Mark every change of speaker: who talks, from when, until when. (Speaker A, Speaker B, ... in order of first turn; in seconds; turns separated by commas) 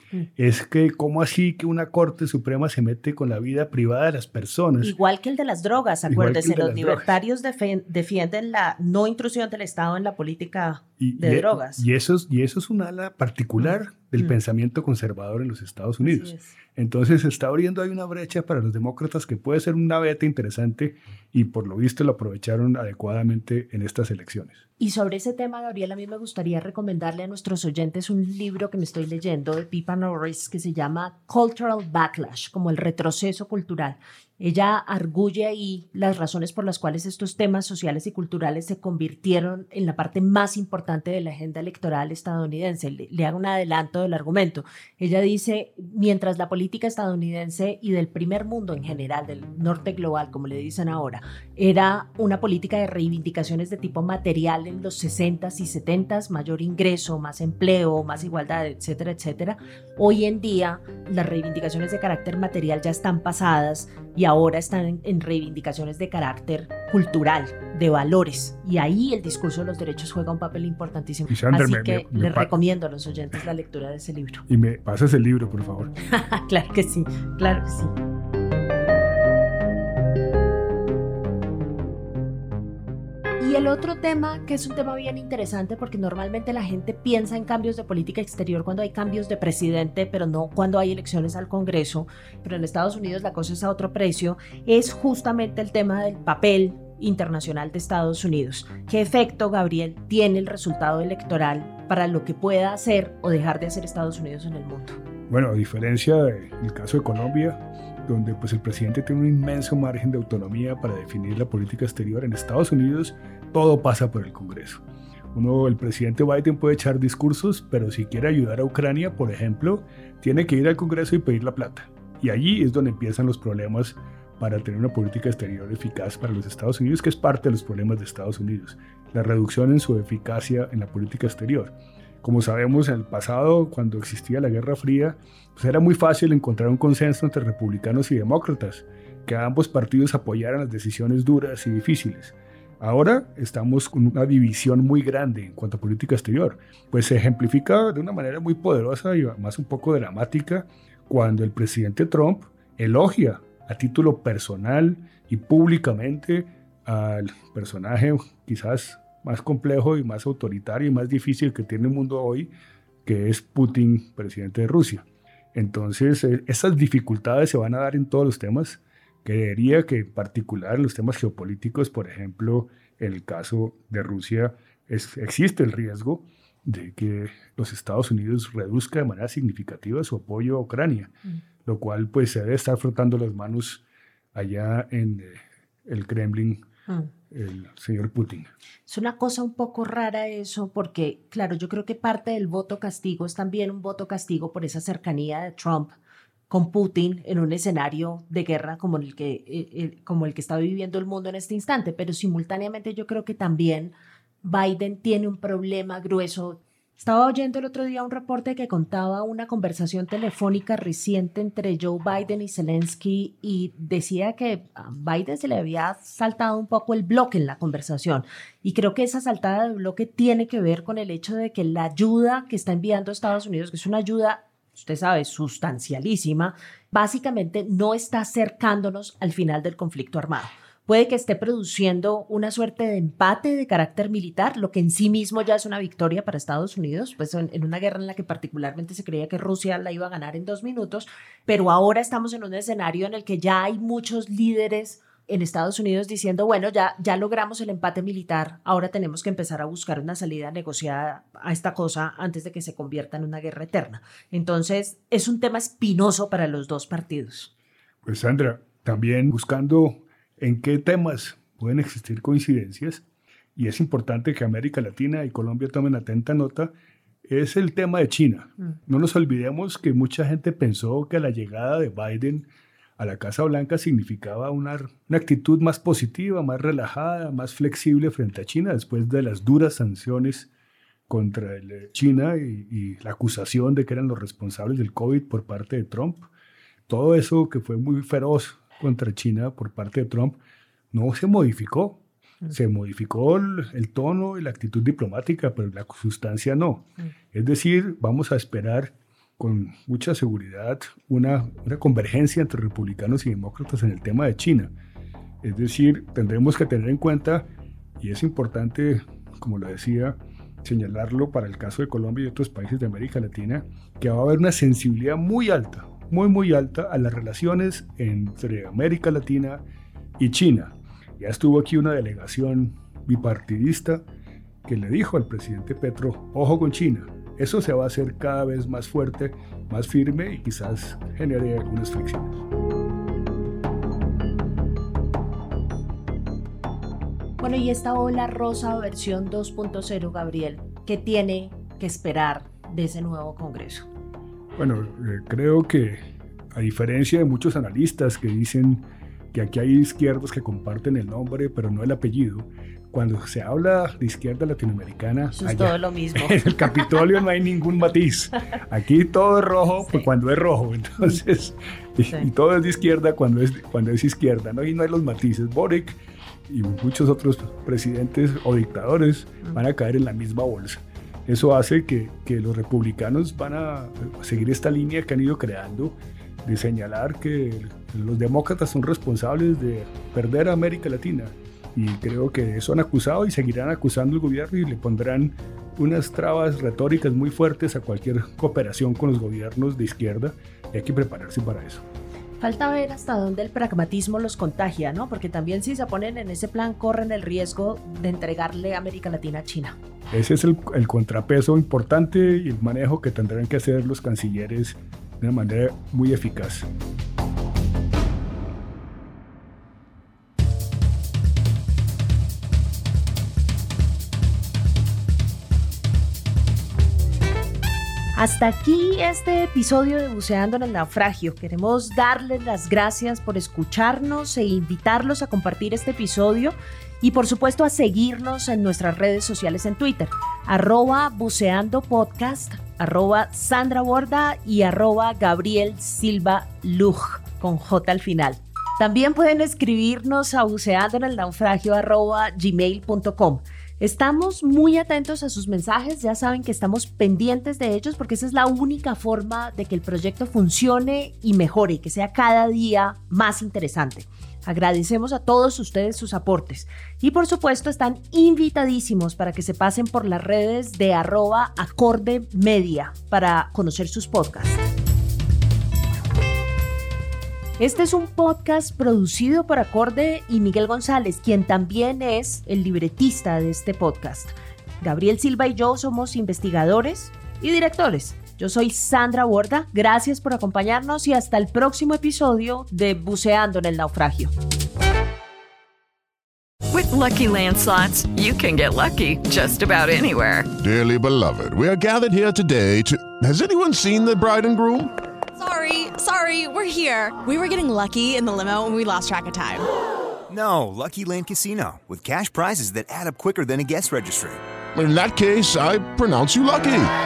Speaker A: 0.3-4.9, Speaker B: 4.8-11.8, Speaker A: 6.1-7.1, Speaker A: 11.0-24.6, Speaker B: 16.0-16.5, Speaker B: 24.8-74.4, Speaker A: 71.3-72.5, Speaker A: 74.5-75.9, Speaker B: 76.1-77.9, Speaker B: 83.4-105.0, Speaker A: 105.3-114.8, Speaker A: 115.3-162.5, Speaker A: 163.0-183.8, Speaker A: 184.3-186.6, Speaker A: 187.3-188.5, Speaker B: 188.9-195.9, Speaker B: 196.5-257.5, Speaker A: 258.0-263.0, Speaker A: 263.6-266.7, Speaker A: 267.2-272.5, Speaker A: 273.0-280.5, Speaker A: 281.1-286.3, Speaker A: 286.9-290.4, Speaker A: 290.9-304.7, Speaker A: 305.4-307.5, Speaker A: 308.0-319.6, Speaker A: 320.2-324.0, Speaker A: 324.6-332.4, Speaker B: 337.4-343.9, Speaker A: 344.6-391.8, Speaker B: 355.4-356.9, Speaker B: 392.4-399.8, Speaker A: 400.1-406.7, Speaker B: 418.1-464.6, Speaker B: 467.6-484.3, Speaker C: 486.7-490.5, Speaker D: 490.6-494.9, Speaker E: 495.4-499.7, Speaker F: 500.3-504.4, Speaker D: 504.7-506.9